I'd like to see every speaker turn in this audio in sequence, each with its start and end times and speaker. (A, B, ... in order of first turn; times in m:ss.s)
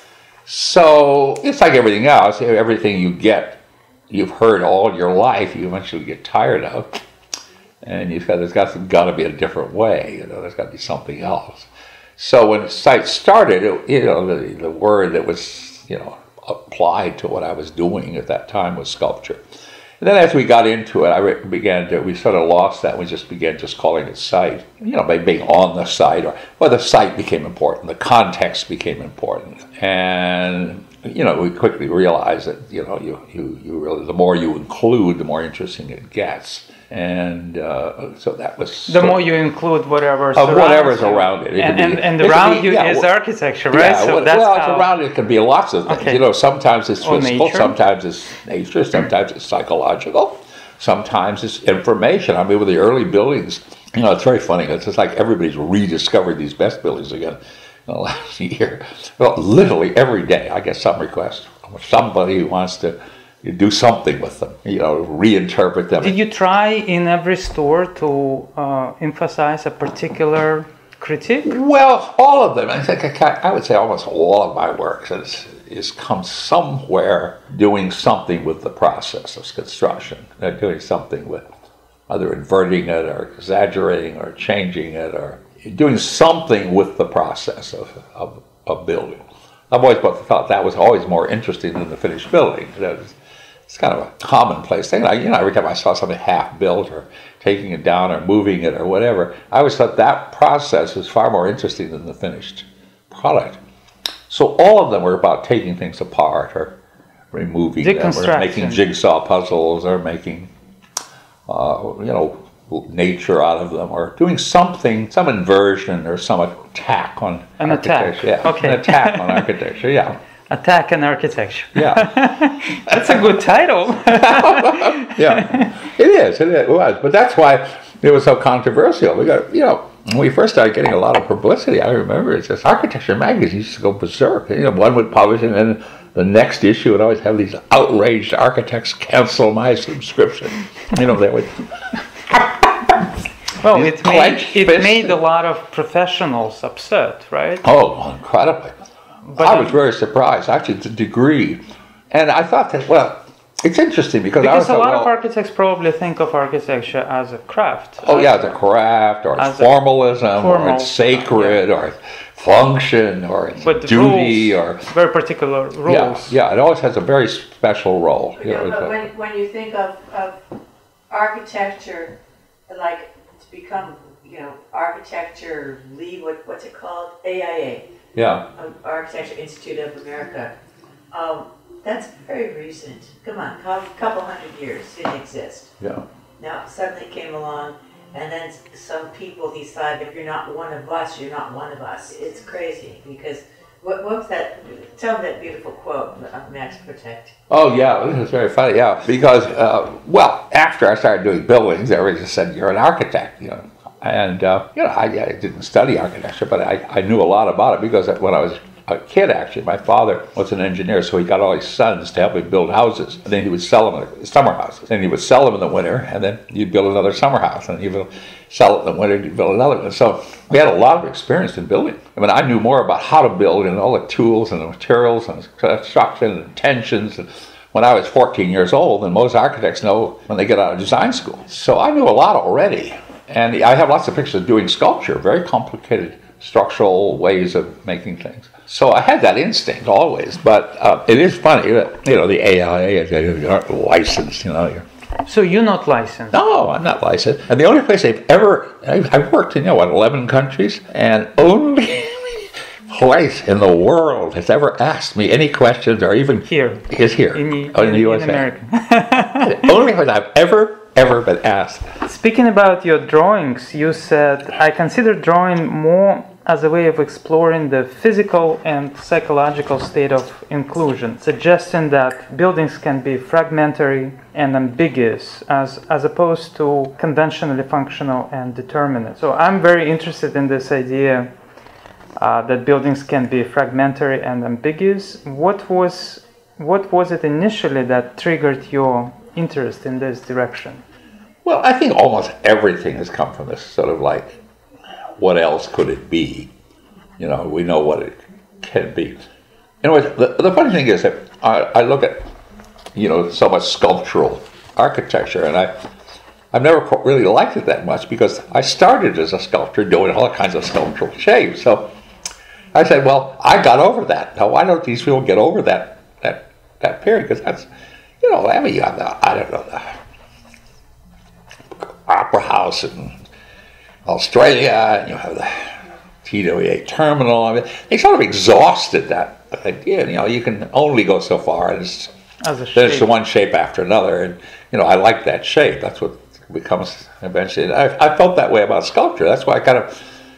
0:00.4-0:06.9 A
0:07.8-0:19.4 A
0:20.0-0:39.2 A
0:38.9-0:44.9 B
0:40.3-0:43.1 A
0:43.7-1:06.3 A
0:45.9-0:46.2 B
0:47.0-0:47.8 B
1:06.0-1:11.6 B
1:11.4-1:21.4 A
1:22.1-1:33.2 A
1:33.7-1:43.6 A
1:44.3-1:46.8 A
1:47.3-1:50.5 A
1:47.8-1:48.8 B
1:51.5-2:00.2 A
1:57.6-1:59.5 B
2:00.5-2:05.7 B
2:01.8-2:02.1 A
2:02.9-2:03.3 A
2:04.1-2:21.6 A
2:22.3-2:23.0 A
2:23.6-2:27.7 B
2:23.6-2:25.2 A
2:27.6-2:28.7 A
2:29.2-2:29.8 B
2:29.4-2:35.1 A
2:34.4-2:38.6 B
2:38.0-2:44.8 A
2:39.4-2:41.6 B
2:43.6-2:46.4 B
2:45.9-2:49.0 A
2:48.4-2:50.4 C
2:51.1-2:52.2 C
2:52.7-2:57.8 C
2:58.2-2:58.5 A
2:58.6-3:00.5 C
3:01.1-3:05.7 C
3:05.8-3:06.0 A
3:06.4-3:17.4 C
3:17.5-4:04.8 A
4:05.2-4:06.4 B
4:06.3-4:18.5 A
4:16.5-4:19.7 B
4:19.4-4:21.9 A
4:22.0-4:41.3 B
4:42.2-4:50.8 B
4:51.4-4:54.4 A
4:55.2-4:56.5 A
4:57.2-4:59.2 A
4:59.8-5:02.3 A
5:03.0-5:05.7 A
5:06.5-5:11.9 A
5:12.7-5:17.7 A
5:18.2-5:20.0 A
5:22.1-5:23.2 A
5:24.1-5:32.1 A
5:32.4-5:33.1 B
5:32.8-5:39.9 A